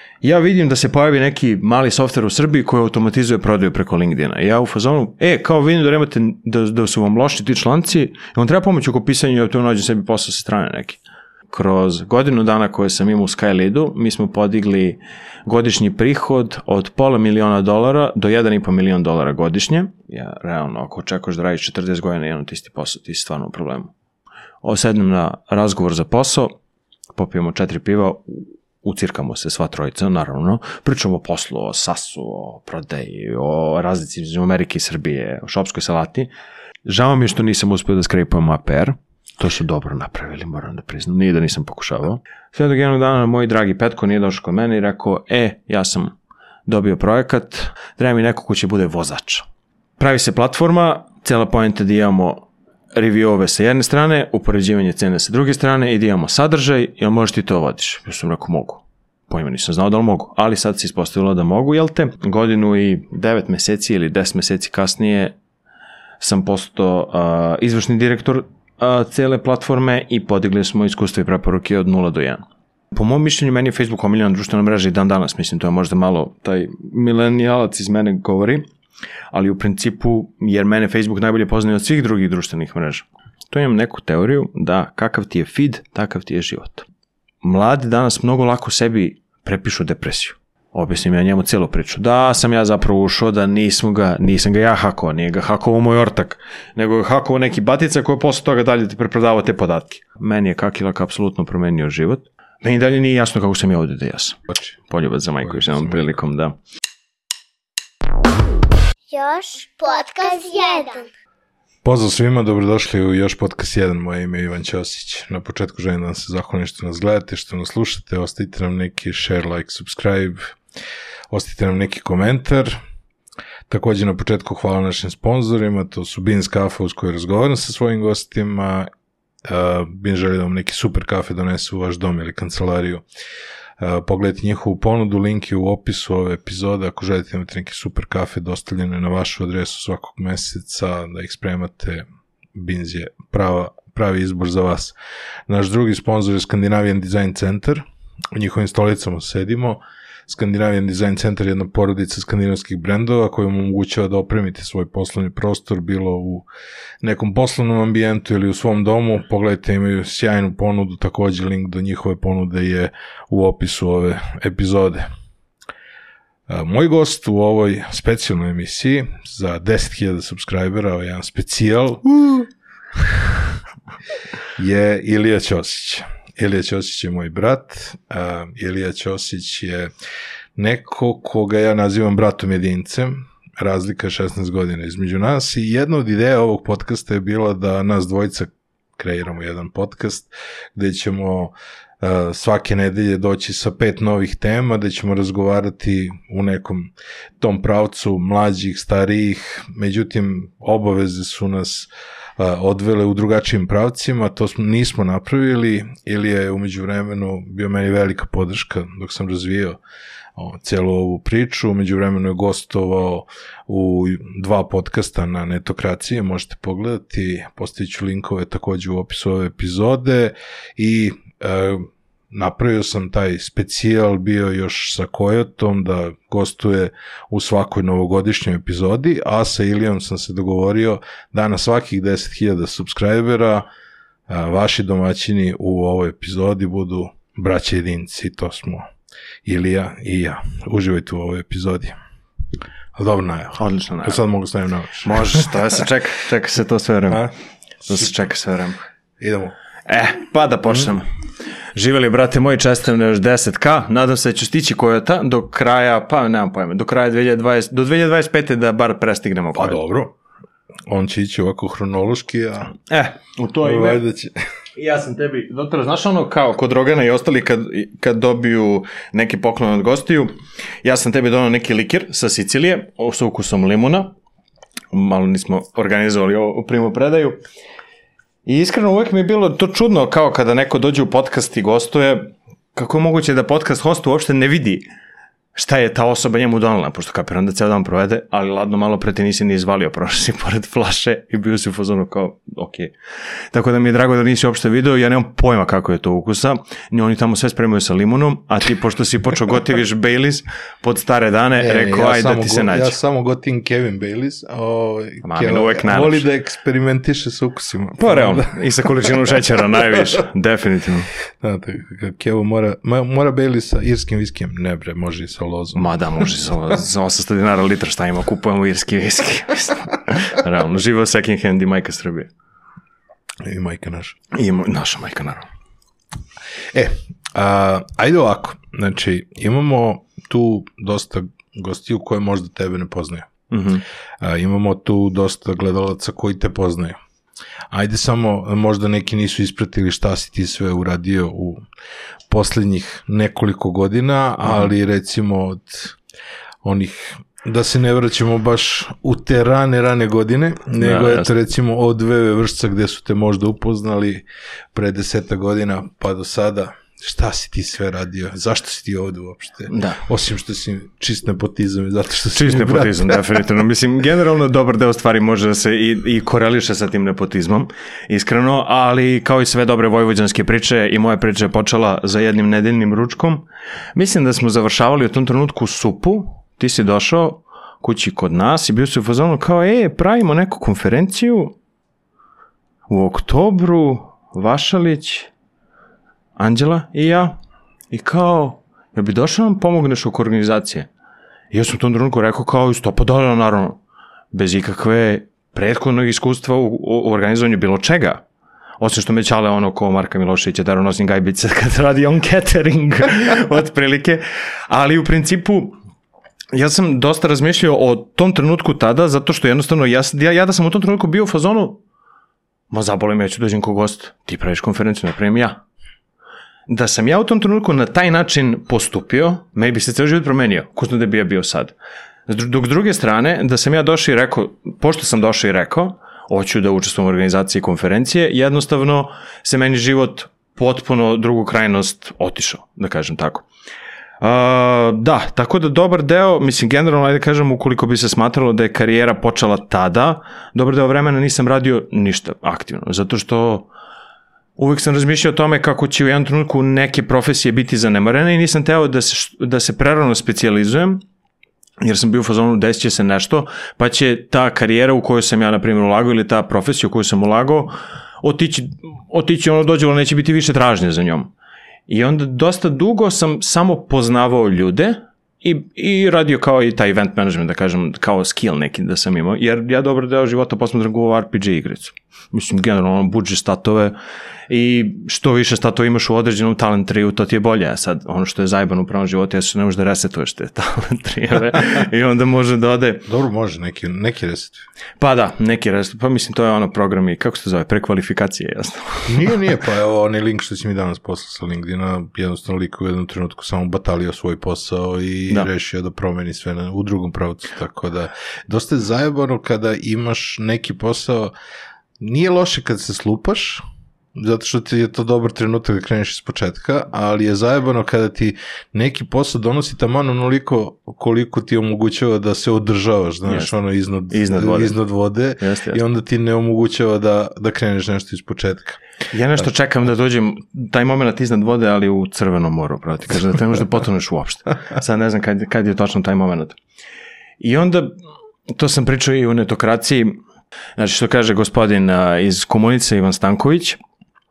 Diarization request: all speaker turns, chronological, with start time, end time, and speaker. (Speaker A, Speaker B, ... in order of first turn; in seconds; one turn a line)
Speaker A: 0.2-23.9
Speaker A: 24.6-26.6
Speaker A: 27.1-36.3
Speaker A: 36.9-46.1
Speaker A: 46.7-49.5
Speaker A: 50.0-65.3
Speaker A: 66.2-78.7
Speaker A: 79.3-86.9
Speaker A: 87.4-106.6
Speaker B: 105.4-106.0
Speaker C: 109.1-111.1
Speaker B: 111.8-120.6
Speaker B: 121.3-122.8
Speaker B: 123.7-128.9
Speaker B: 129.4-133.1
Speaker B: 133.8-145.0
Speaker B: 145.5-156.5
Speaker B: 157.0-165.1
Speaker B: 166.5-173.5
Speaker B: 174.6-179.9
Speaker B: 180.6-209.8
Speaker B: 210.4-233.7
Speaker B: 234.3-238.9
Speaker B: 239.4-241.9
Speaker B: 243.0-245.5
Speaker A: 243.6-244.2
Speaker A: 245.0-247.3
Speaker A: 247.8-248.8
Speaker B: 249.2-249.5
Speaker A: 249.9-251.1
Speaker A: 251.8-259.8
Speaker B: 259.6-260.1
Speaker B: 260.9-262.8
Speaker A: 262.9-264.0
Speaker B: 263.6-264.4
Speaker A: 264.8-274.1
Speaker A: 274.9-277.4
Speaker A: 278.5-284.9
Speaker A: 285.6-292.9
Speaker A: 293.5-303.0
Speaker B: 301.6-308.6
Speaker A: 305.2-306.3
Speaker A: 308.0-311.1
Speaker B: 311.4-316.3
Speaker A: 315.8-322.3
Speaker B: 323.4-324.2
Speaker A: 324.3-325.5
Speaker B: 326.7-333.3
Speaker A: 333.5-333.8
Speaker B: 334.2-337.0
Speaker B: 337.7-341.6
Speaker B: 342.3-346.0
Speaker B: 346.6-363.2
Speaker A: 350.8-351.3
Speaker A: 359.7-360.0
Speaker A: 362.3-381.6
Speaker A: 382.9-385.3
Speaker A: 386.4-387.4
Speaker A: 387.9-390.9
Speaker A: 391.5-393.8
Speaker A: 394.3-398.2
Speaker A: 398.8-405.8
Speaker A: 406.5-411.8
Speaker A: 412.7-415.6
Speaker A: 416.7-421.8
Speaker A: 422.3-433.5
Speaker A: 434.2-443.7
Speaker A: 444.6-451.0
Speaker A: 451.8-461.3
Speaker A: 461.9-473.9
Speaker A: 474.5-483.1
Speaker B: 483.1-484.6
Speaker A: 485.0-489.3
Speaker B: 489.1-501.3
Speaker B: 502.0-503.6
Speaker B: 504.1-518.8
Speaker A: 513.3-513.5
Speaker A: 514.1-514.8
Speaker A: 515.4-515.8
Speaker A: 519.1-526.6
Speaker A: 527.4-528.0
Speaker A: 528.5-530.2
Speaker A: 530.8-533.8